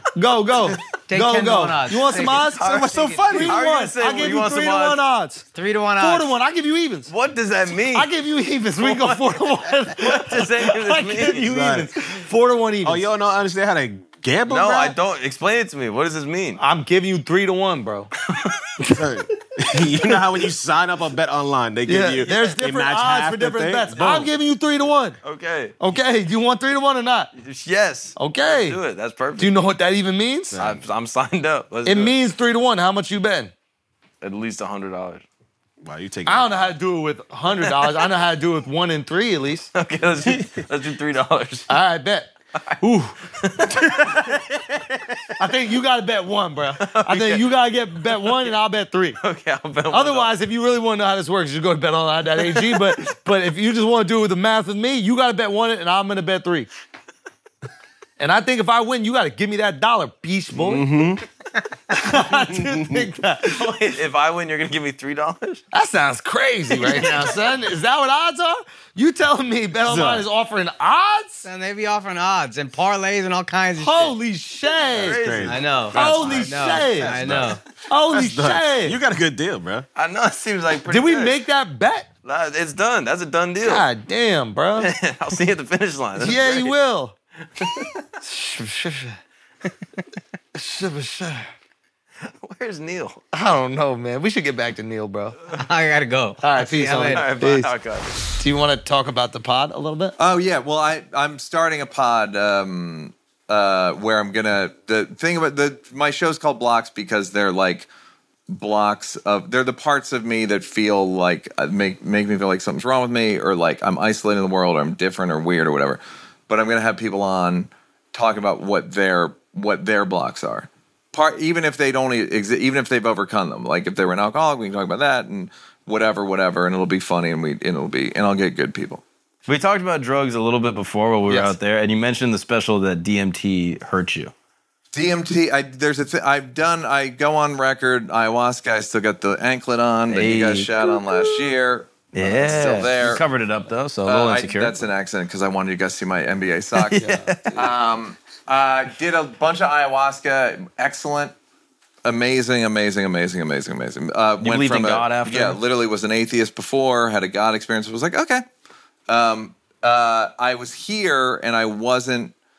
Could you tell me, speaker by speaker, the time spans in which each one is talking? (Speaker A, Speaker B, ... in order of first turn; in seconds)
Speaker A: 0.1-5.5, 6.0-7.1, 7.9-13.1, 16.6-18.1, 21.9-25.2, 25.8-27.3, 28.1-28.8, 29.4-30.6, 31.8-33.5, 36.2-39.7, 41.7-43.1, 43.8-44.3, 45.4-49.2, 49.9-56.7, 58.2-60.9, 61.9-63.7, 65.7-71.5, 73.8-75.2, 75.9-77.2, 77.9-79.0, 80.9-82.1, 83.6-84.9, 86.2-87.2, 88.2-89.2, 90.5-91.5, 93.3-95.4, 96.4-97.7, 98.3-100.2, 131.3-131.5, 147.0-147.6
Speaker B: 1.1-3.5, 5.5-6.3, 71.4-74.1, 75.5-77.6, 95.5-97.3
Speaker C: 2.4-5.0, 7.1-8.1, 8.8-11.5, 14.5-16.6, 18.3-18.6, 25.2-25.7, 27.4-29.5, 30.6-32.1, 34.2-35.2, 37.6-38.0, 39.7-41.7, 43.4-44.8, 46.8-47.5, 48.2-48.5, 49.2-50.3, 52.4-52.8, 63.4-65.6, 66.8-67.3, 74.9-75.9, 80.0-81.3, 82.2-83.8, 84.8-86.7, 87.6-87.9, 92.2-93.2, 97.0-98.4, 129.4-134.3, 140.1-140.7, 142.1-144.8, 146.8-147.6, 154.4-155.6
Speaker D: 3.0-3.5, 11.4-11.9, 12.8-14.9, 18.9-24.3, 30.5-30.8, 35.8-36.7, 60.5-61.2, 62.6-63.0, 69.8-70.2, 74.9-79.9
Speaker E: 100.2-107.9, 108.5-129.0, 134.9-143.2, 144.0-151.3, 152.0-158.4, 159.1-162.3